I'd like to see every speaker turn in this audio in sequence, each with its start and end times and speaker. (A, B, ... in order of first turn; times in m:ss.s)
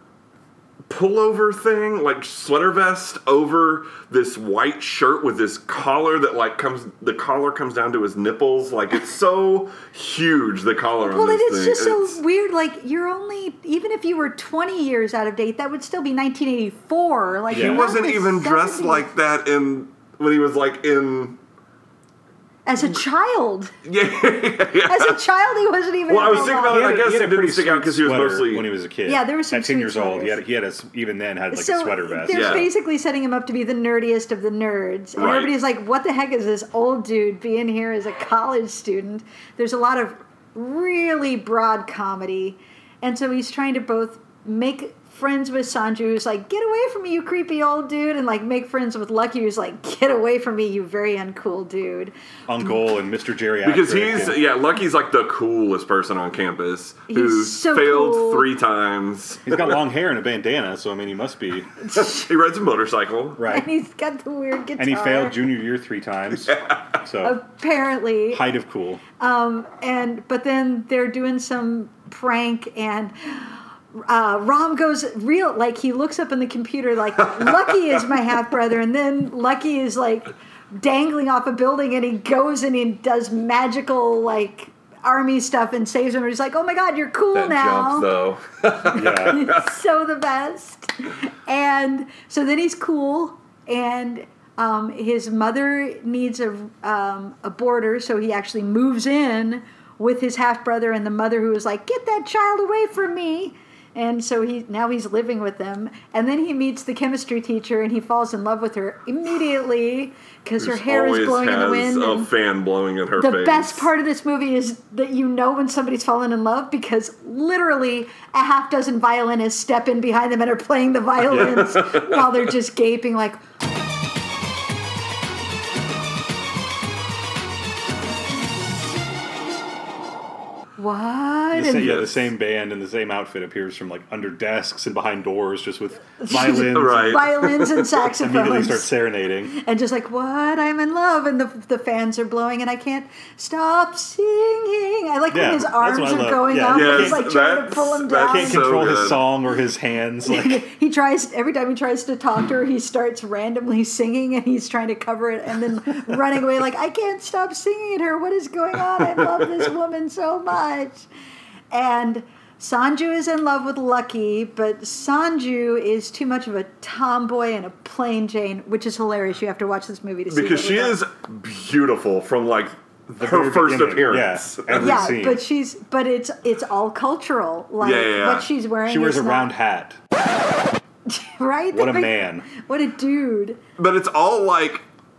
0:00.9-0:12.2 A
0:11.0-0:19.1 B
0:17.5-0:21.4 A
0:17.5-0:17.8 C
0:22.6-0:23.7 B
0:23.8-0:25.2 A
0:24.9-0:26.9 B
0:26.1-0:28.7 A
0:26.6-0:32.7 C
0:29.0-0:30.4 B
0:31.5-0:52.1 B
0:32.3-0:32.7 A
0:35.2-0:35.5 A
0:52.5-0:54.4 C
0:53.6-0:59.8 A
0:57.1-0:58.5 B
0:59.4-1:01.7 C
1:01.8-1:02.3 B
1:01.9-1:03.4 A
1:03.4-1:03.7 C
1:03.5-1:05.4 B
1:04.8-1:07.4 C
1:06.5-1:06.8 A
1:07.2-1:08.4 B
1:08.3-1:09.0 C
1:09.2-1:28.1 B
1:17.2-1:17.7 A
1:27.3-1:29.7 A
1:28.9-1:29.4 C
1:29.0-1:52.3 B
1:50.6-1:53.9 A
1:53.2-2:03.4 B
2:01.3-2:01.6 C
2:01.3-2:02.3 A
2:10.8-2:12.2 B
2:11.5-2:17.2 C
2:16.2-2:18.9 B
2:16.3-2:17.9 A
2:18.2-2:19.5 C
2:19.5-2:28.6 B
2:25.3-2:27.3 C
2:26.7-2:29.3 A
2:28.2-2:30.6 C
2:30.2-2:41.1 B
2:41.7-2:51.0 B
2:50.3-2:55.2 A
2:53.1-2:55.4 C
2:54.7-2:59.5 B
2:57.8-2:58.5 A
2:58.8-3:00.0 C
3:01.1-3:03.6 B
3:01.7-3:02.5 C
3:03.8-3:04.8 A